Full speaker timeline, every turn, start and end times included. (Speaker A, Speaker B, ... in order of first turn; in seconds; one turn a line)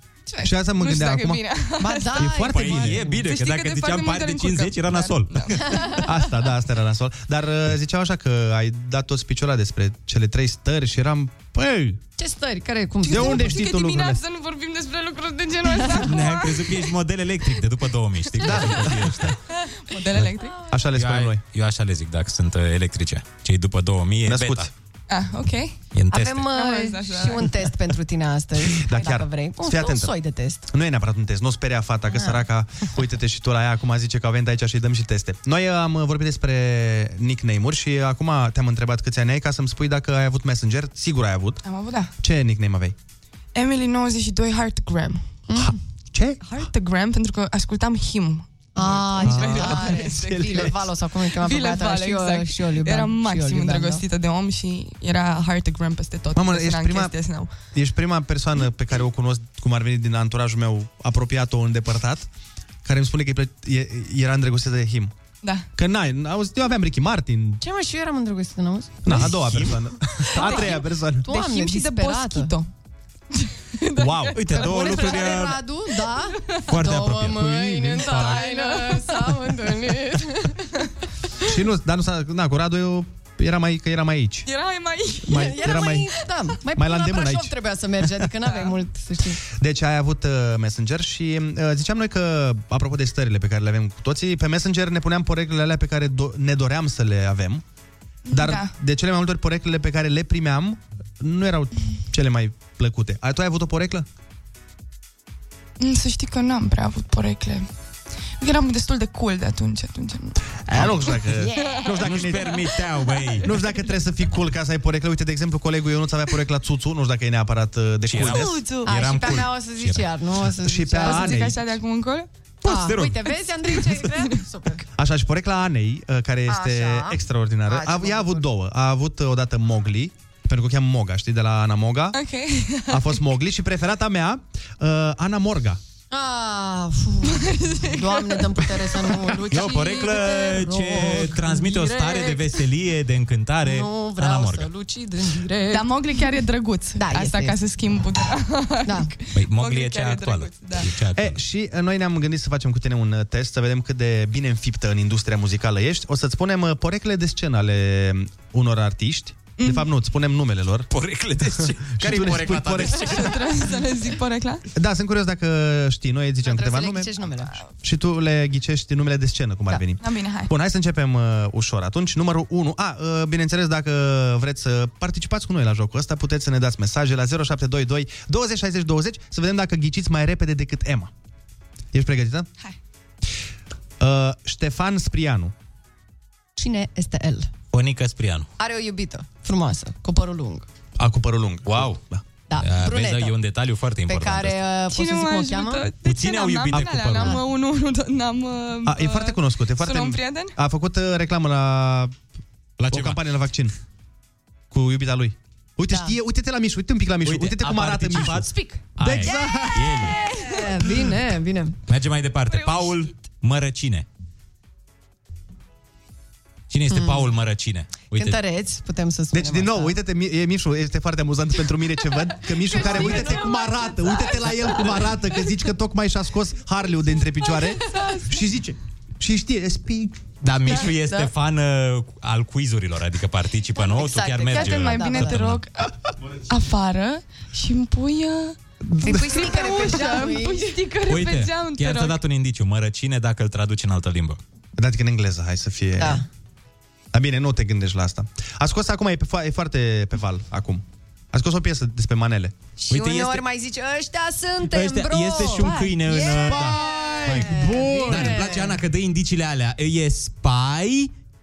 Speaker A: 0.2-2.2
Speaker B: 0.4-1.4
Speaker C: 1.8-3.2
Speaker B: 2.1-3.0
Speaker D: 2.3-5.8
Speaker A: 3.2-6.0
Speaker C: 5.7-6.0
Speaker B: 6.0-12.0
Speaker C: 12.2-13.6
Speaker B: 13.0-14.2
Speaker A: 13.1-16.8
Speaker D: 15.9-19.4
Speaker B: 18.4-19.4
Speaker A: 19.5-20.6
Speaker B: 20.7-21.4
Speaker D: 20.9-24.7
Speaker B: 24.3-24.7
Speaker A: 25.1-25.8
Speaker D: 25.9-26.5
Speaker C: 26.1-30.6
Speaker A: 26.5-27.5
Speaker B: 28.7-30.1
Speaker B: 30.7-41.6
Speaker C: 32.1-32.4
Speaker A: 41.6-42.1
Speaker B: 42.2-43.0
Speaker A: 43.5-45.2
Speaker C: 45.5-45.8
Speaker B: 45.5-46.4
Speaker A: 46.4-50.8
Speaker C: 48.7-54.0
Speaker B: 49.2-50.8
Speaker A: 51.3-57.5
Speaker B: 56.3-57.1
Speaker B: 57.7-62.3
Speaker B: 62.8-65.1
Speaker A: 65.4-65.7
Speaker B: 65.8-67.6
Speaker C: 67.6-69.2
Speaker B: 69.0-71.3
Speaker D: 69.1-69.8
Speaker A: 70.3-72.7
Speaker C: 70.4-72.5
Speaker A: 73.3-75.4
Speaker B: 74.0-74.5
Speaker D: 74.3-75.6
Speaker C: 74.7-80.8
Speaker A: 76.1-76.6
Speaker D: 76.7-78.4
Speaker A: 78.0-79.5
Speaker B: 81.4-84.5
Speaker A: 84.5-85.6
Speaker B: 85.2-86.1
Speaker C: 85.3-89.4
Speaker B: 86.7-87.5
Speaker B: 89.5-97.6
Speaker A: 98.3-98.7
Speaker B: 98.3-104.0
Speaker A: 105.8-107.7
Speaker A: 108.4-110.4
Speaker B: 110.7-112.6
Speaker A: 111.0-111.9
Speaker D: 112.0-113.5
Speaker B: 113.4-118.6
Speaker D: 118.1-120.0
Speaker A: 118.3-118.9
Speaker C: 118.8-121.5
Speaker B: 120.6-121.7
Speaker A: 121.0-122.3
Speaker D: 122.6-123.3
Speaker C: 122.6-124.8
Speaker A: 123.7-124.4
Speaker B: 125.0-132.2
Speaker C: 126.5-128.4
Speaker A: 132.1-133.2
Speaker B: 132.9-135.8
Speaker C: 136.1-142.4
Speaker A: 137.2-138.6
Speaker D: 139.5-144.7
Speaker C: 143.6-145.9
Speaker A: 145.7-150.9
Speaker C: 146.9-147.6
Speaker C: 148.8-149.1
Speaker D: 149.3-151.4
Speaker B: 151.1-160.9
Speaker A: 159.6-159.9
Speaker D: 160.9-163.6
Speaker B: 161.4-163.3
Speaker A: 163.1-164.6
Speaker B: 164.7-167.2
Speaker C: 166.4-167.6
Speaker B: 167.8-181.1
Speaker A: 170.0-170.5
Speaker B: 181.9-182.5
Speaker B: 184.0-185.5
Speaker C: 186.6-187.5
Speaker D: 187.7-188.5
Speaker C: 188.6-190.7
Speaker B: 191.0-192.2
Speaker D: 191.7-192.0
Speaker C: 192.5-193.3
Speaker D: 192.6-194.6
Speaker C: 194.1-195.9
Speaker A: 194.9-200.6
Speaker D: 196.0-197.4
Speaker C: 197.2-197.4
Speaker B: 198.8-202.2
Speaker D: 202.8-203.2
Speaker B: 202.9-203.7
Speaker B: 204.7-210.2
Speaker D: 207.2-210.2
Speaker C: 209.3-211.8
Speaker A: 210.2-210.6
Speaker D: 211.9-214.1
Speaker A: 212.5-213.1
Speaker D: 216.7-218.4
Speaker C: 216.9-217.3
Speaker C: 218.1-220.0
Speaker B: 219.3-230.2
Speaker C: 222.7-224.8
Speaker C: 227.9-228.2
Speaker D: 230.4-235.6
Speaker C: 233.8-235.5
Speaker A: 234.5-235.9
Speaker A: 236.4-242.2
Speaker B: 238.9-239.3
Speaker C: 239.0-240.8
Speaker D: 241.1-244.4
Speaker B: 244.8-246.2
Speaker C: 246.0-246.2
Speaker B: 247.1-252.5
Speaker C: 252.8-258.8
Speaker D: 252.9-253.4
Speaker D: 254.7-261.1
Speaker B: 256.5-258.4